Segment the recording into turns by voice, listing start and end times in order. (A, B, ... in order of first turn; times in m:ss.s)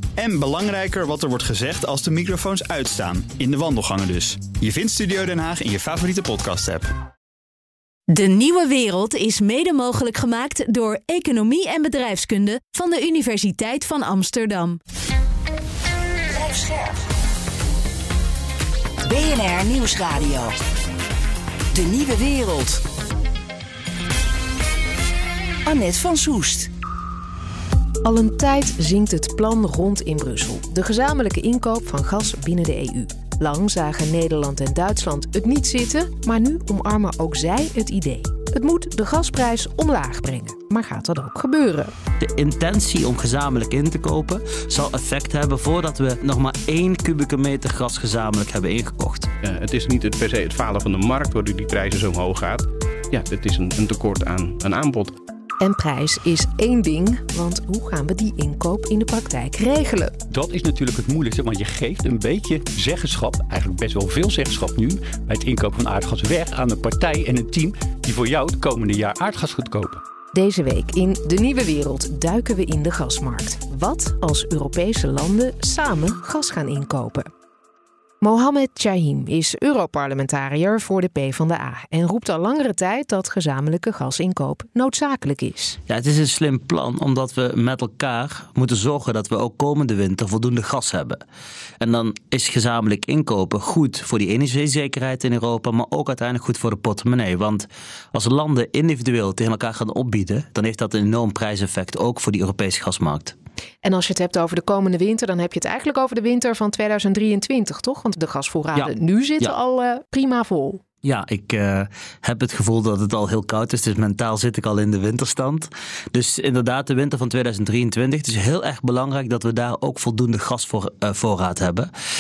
0:00.2-0:06.8 A
0:08.1-0:14.8 B
0:16.4-0:16.9 C
0:19.0-0:20.5 C
0:21.7-0:22.8 C
0:25.6-0:26.7 C
0:28.0-0:41.9 D
0:42.2-0:49.3 E
0:49.4-0:55.2 F
0:55.6-1:00.1 D
1:00.3-1:10.0 G
1:10.3-1:17.3 D
1:18.2-1:25.8 D
1:25.9-1:31.2 E
1:31.8-1:43.3 E
1:43.8-1:50.8 D
1:48.7-1:49.5 E
1:51.0-2:01.9 E